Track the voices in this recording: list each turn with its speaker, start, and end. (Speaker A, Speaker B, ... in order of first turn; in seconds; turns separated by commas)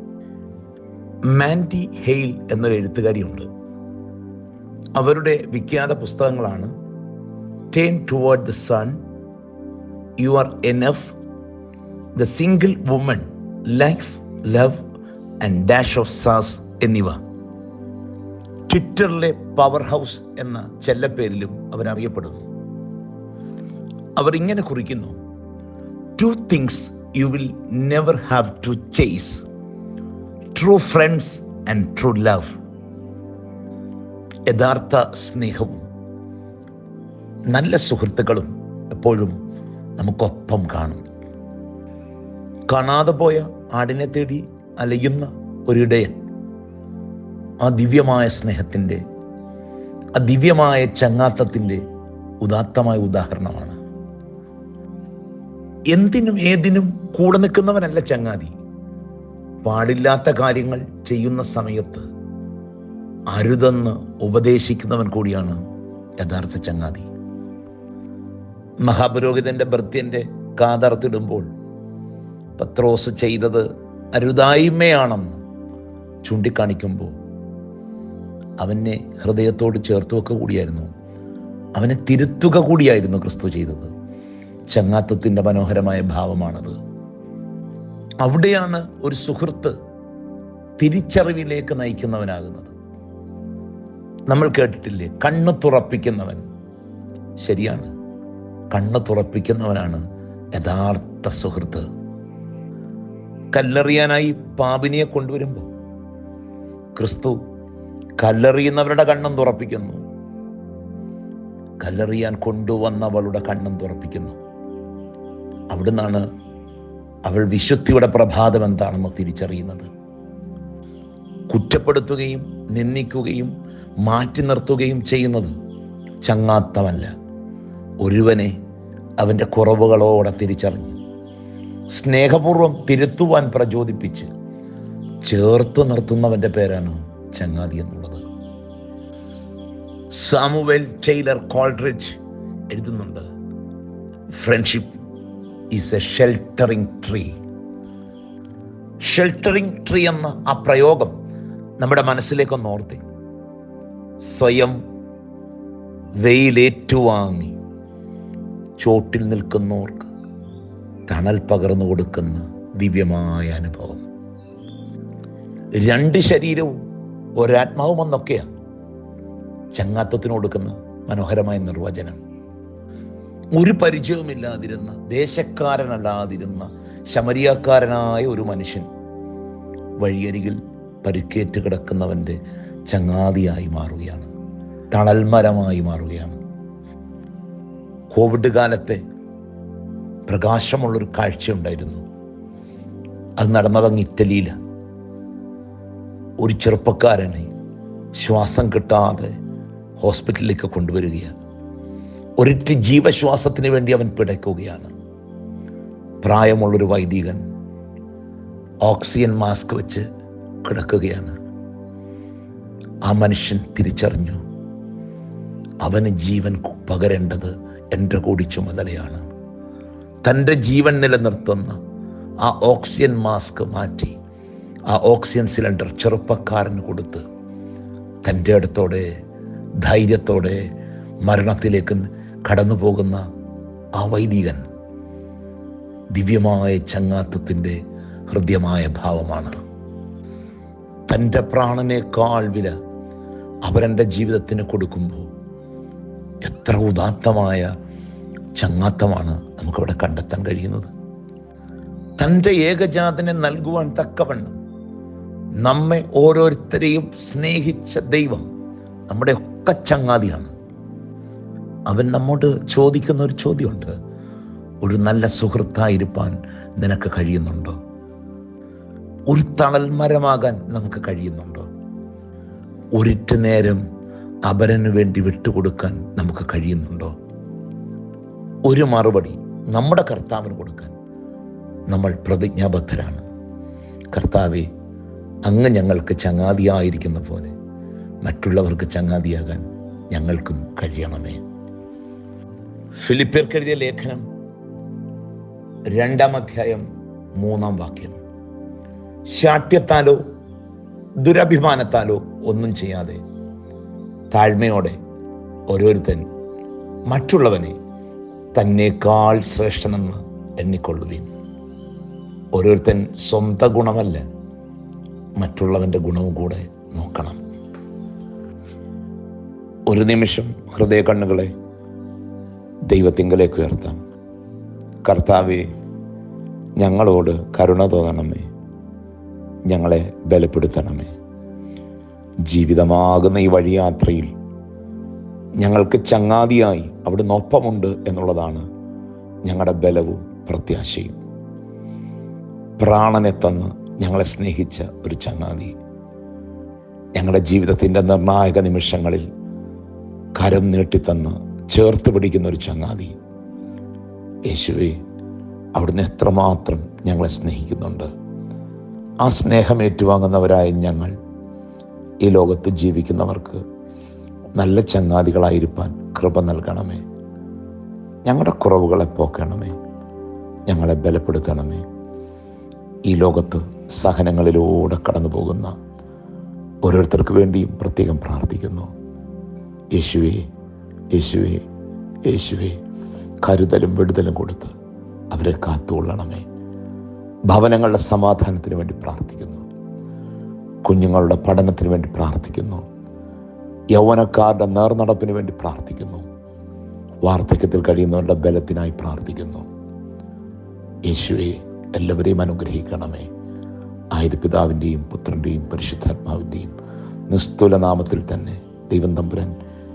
Speaker A: 1.3-3.5, Speaker A: 5.0-6.7, Speaker A: 7.7-9.0, Speaker A: 10.2-11.1, Speaker A: 12.2-14.8, Speaker A: 15.4-17.2, Speaker A: 18.7-22.5, Speaker A: 24.1-25.1, Speaker A: 26.2-29.4, Speaker A: 30.5-32.5, Speaker A: 34.5-35.8, Speaker A: 37.5-39.4, Speaker A: 40.0-41.1, Speaker A: 42.7-46.2, Speaker A: 47.6-49.0, Speaker A: 50.2-51.8, Speaker A: 52.4-53.8, Speaker A: 55.9-58.5, Speaker A: 59.6-62.1, Speaker A: 63.3-65.6, Speaker A: 66.2-67.1, Speaker A: 68.8-71.5, Speaker A: 72.6-75.4, Speaker A: 76.2-77.1, Speaker A: 78.6-80.9, Speaker A: 81.7-83.9, Speaker A: 84.7-86.8, Speaker A: 88.2-89.8, Speaker A: 90.8-92.7, Speaker A: 94.3-96.4, Speaker A: 97.4-97.9, Speaker A: 98.7-100.0, Speaker A: 100.5-101.9, Speaker A: 103.5-105.7, Speaker A: 106.9-107.4, Speaker A: 108.2-110.0, Speaker A: 111.8-114.4, Speaker A: 115.7-116.3, Speaker A: 117.2-119.9, Speaker A: 121.5-125.5, Speaker A: 126.2-127.1, Speaker A: 128.0-128.6, Speaker A: 129.2-131.0, Speaker A: 131.9-134.3, Speaker A: 135.2-138.2, Speaker A: 140.1-142.2, Speaker A: 142.7-143.3, Speaker A: 144.3-144.9, Speaker A: 145.7-147.4, Speaker A: 149.0-151.2, Speaker A: 151.8-153.0, Speaker A: 154.2-154.8, Speaker A: 156.2-157.6, Speaker A: 158.8-160.1, Speaker A: 161.1-164.0, Speaker A: 165.8-166.8, Speaker A: 167.4-168.5, Speaker A: 169.7-172.2, Speaker A: 173.5-178.9, Speaker A: 180.0-184.3, Speaker A: 184.9-186.4, Speaker A: 188.1-189.0, Speaker A: 190.3-192.0, Speaker A: 193.4-194.5, Speaker A: 196.4-197.5, Speaker A: 198.2-199.3, Speaker A: 200.0-201.3, Speaker A: 202.4-204.9, Speaker A: 206.2-207.4, Speaker A: 208.8-210.1, Speaker A: 210.6-211.4, Speaker A: 213.1-214.4, Speaker A: 215.8-219.2, Speaker A: 220.2-221.8, Speaker A: 222.4-224.2, Speaker A: 224.9-227.2, Speaker A: 228.2-229.1, Speaker A: 229.8-230.7, Speaker A: 231.2-233.2, Speaker A: 234.0-234.7, Speaker A: 236.1-239.6, Speaker A: 241.1-242.7, Speaker A: 243.7-245.3, Speaker A: 246.4-247.7, Speaker A: 248.6-250.9, Speaker A: 252.2-254.5, Speaker A: 255.6-258.4, Speaker A: 259.1-260.5, Speaker A: 261.9-263.9, Speaker A: 264.8-267.8, Speaker A: 269.3-271.7, Speaker A: 272.9-273.8, Speaker A: 274.4-277.1, Speaker A: 278.6-280.9, Speaker A: 281.9-283.2, Speaker A: 284.1-284.7, Speaker A: 285.4-287.5, Speaker A: 288.2-291.4, Speaker A: 293.0-294.2, Speaker A: 295.9-296.9, Speaker A: 297.4-298.2, Speaker A: 299.3-300.2, Speaker A: 301.2-303.2, Speaker A: 304.3-305.0, Speaker A: 305.7-306.3, Speaker A: 307.1-307.8, Speaker A: 308.5-311.3, Speaker A: 312.5-314.2, Speaker A: 315.4-317.4, Speaker A: 319.9-321.5, Speaker A: 322.9-324.0, Speaker A: 325.0-325.7, Speaker A: 326.8-328.5, Speaker A: 329.7-331.1, Speaker A: 332.5-334.3, Speaker A: 335.6-338.7, Speaker A: 339.4-341.2, Speaker A: 342.8-345.8, Speaker A: 347.1-349.3, Speaker A: 350.4-353.1, Speaker A: 354.4-355.0, Speaker A: 355.8-358.1, Speaker A: 359.2-361.1, Speaker A: 362.2-363.6, Speaker A: 364.6-367.0, Speaker A: 368.2-369.8, Speaker A: 370.7-371.9, Speaker A: 373.1-375.7, Speaker A: 376.8-378.9, Speaker A: 379.9-380.4, Speaker A: 381.1-381.6, Speaker A: 382.2-382.8, Speaker A: 383.4-384.7, Speaker A: 385.3-386.4, Speaker A: 387.5-389.7, Speaker A: 390.8-392.9, Speaker A: 393.9-396.2, Speaker A: 397.2-399.7, Speaker A: 401.1-403.3, Speaker A: 404.1-406.7, Speaker A: 407.3-409.6